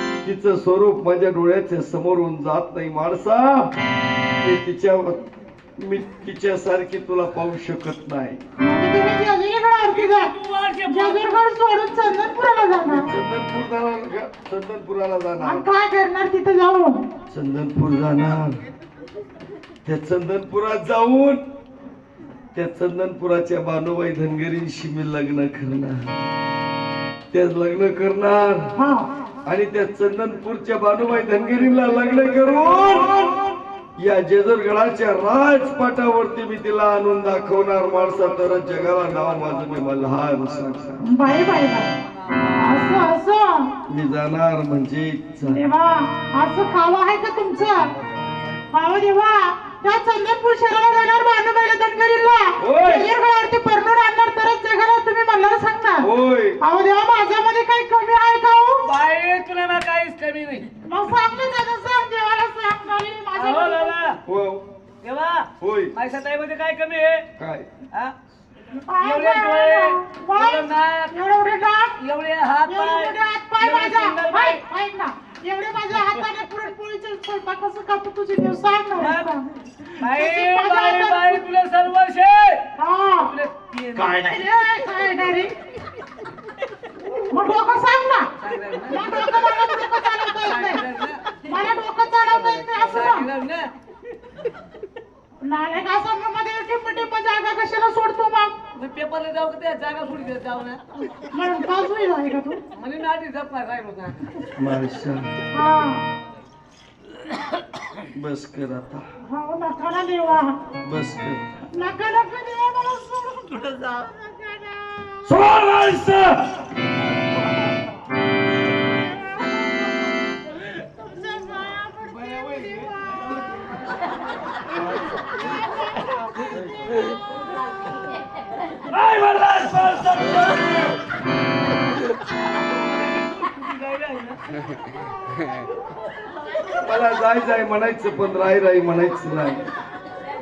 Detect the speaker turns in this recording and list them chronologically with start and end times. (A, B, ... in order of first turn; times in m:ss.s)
0:00.2-0:03.7 A
0:04.4-0:05.2 A
0:05.8-0:08.4 A
0:08.6-0:10.3 B
0:09.9-0:11.4 C
0:10.8-0:13.1 B
0:12.8-0:15.7 A
0:15.4-0:17.0 B
0:17.3-0:18.6 A
0:19.8-0:21.4 A
0:22.6-0:26.1 A
0:27.3-0:28.7 A
0:28.8-0:29.1 B
0:29.4-0:33.2 A
0:34.0-0:41.0 A
0:41.1-0:41.9 B
0:42.6-0:43.7 B
0:43.9-0:45.6 A
0:45.5-0:47.8 B
0:48.7-0:56.1 B
0:52.6-0:53.1 A
0:56.0-0:56.6 A
0:56.6-0:58.9 B
0:58.8-1:00.7 C
1:00.8-1:04.0 B
1:03.4-1:04.2 C
1:04.2-1:04.6 A
1:05.0-1:07.2 C
1:05.6-1:05.9 A
1:07.4-1:07.7 A
1:08.9-1:12.0 B
1:09.0-1:11.1 C
1:12.0-1:14.6 C
1:12.6-1:19.5 B
1:19.0-1:19.3 C
1:20.0-1:21.4 B
1:20.0-1:22.7 C
1:22.8-1:23.3 B
1:23.2-1:24.4 C
1:24.2-1:25.5 B
1:27.3-1:28.3 B
1:28.4-1:29.3 C
1:28.9-1:30.8 B
1:30.4-1:31.4 C
1:31.4-1:33.3 B
1:32.4-1:33.7 C
1:35.4-1:38.5 B
1:38.8-1:40.8 C
1:41.3-1:42.6 B
1:42.8-1:44.3 C
1:44.6-1:45.3 A
1:45.5-1:46.0 B
1:48.0-1:49.0 A
1:49.3-1:50.6 B
1:50.8-1:51.4 A
1:51.7-1:55.2 B
1:55.2-1:56.6 A
2:01.0-2:02.0 B
2:02.2-2:02.8 C
2:06.5-2:06.9 A
2:08.9-2:11.0 C
2:12.6-2:14.4 C
2:16.8-2:19.7 A